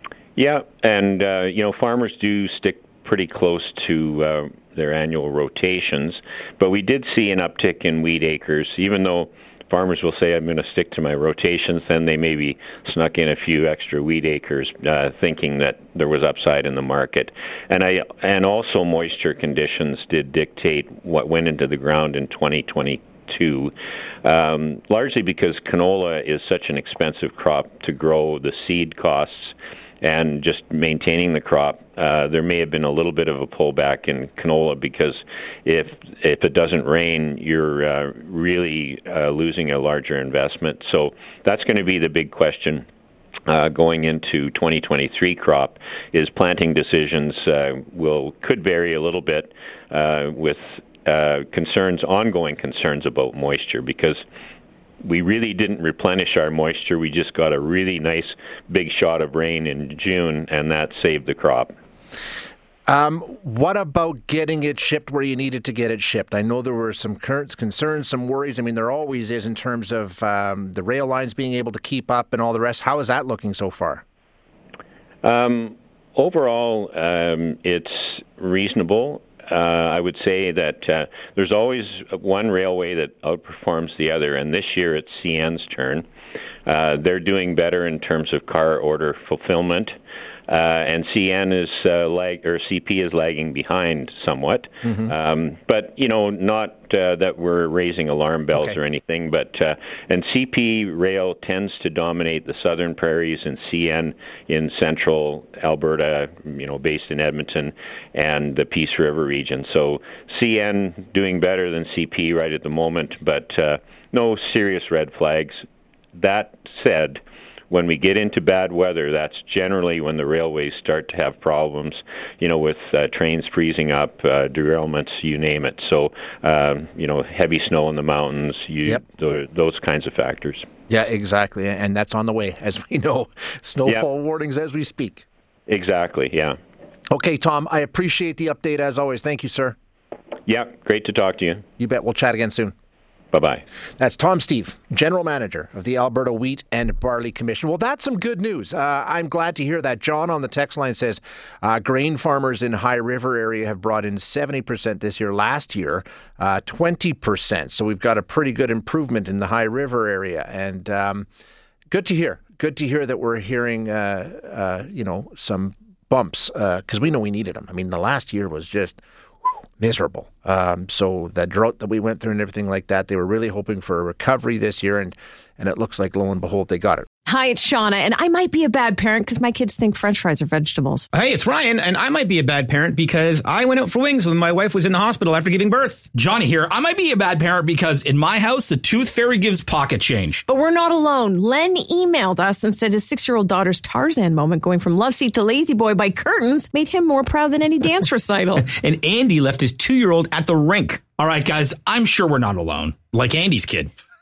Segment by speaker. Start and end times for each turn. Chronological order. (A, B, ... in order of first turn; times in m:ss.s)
0:00.4-0:23.7 A
0:24.2-0:42.9 A
0:43.5-0:54.2 A
0:55.0-1:01.7 A
1:02.9-1:14.0 B
1:15.2-1:26.0 A
1:26.7-1:29.9 A
1:30.5-1:55.6 A
1:34.8-1:35.1 B
1:38.5-1:38.8 B
1:56.2-2:10.7 A
2:10.9-2:15.3 B
2:15.7-2:16.6 A
2:17.1-2:19.8 B
2:20.5-2:21.6 A
2:21.8-2:22.7 B
2:23.3-2:23.6 A
2:24.0-2:41.3 B
2:41.9-2:49.0 B
2:49.8-2:57.1 B
2:57.3-3:01.1 C
3:01.1-3:06.1 D
3:06.1-3:10.4 E
3:10.5-3:18.7 C
3:18.6-3:21.1 D
3:21.1-3:23.9 E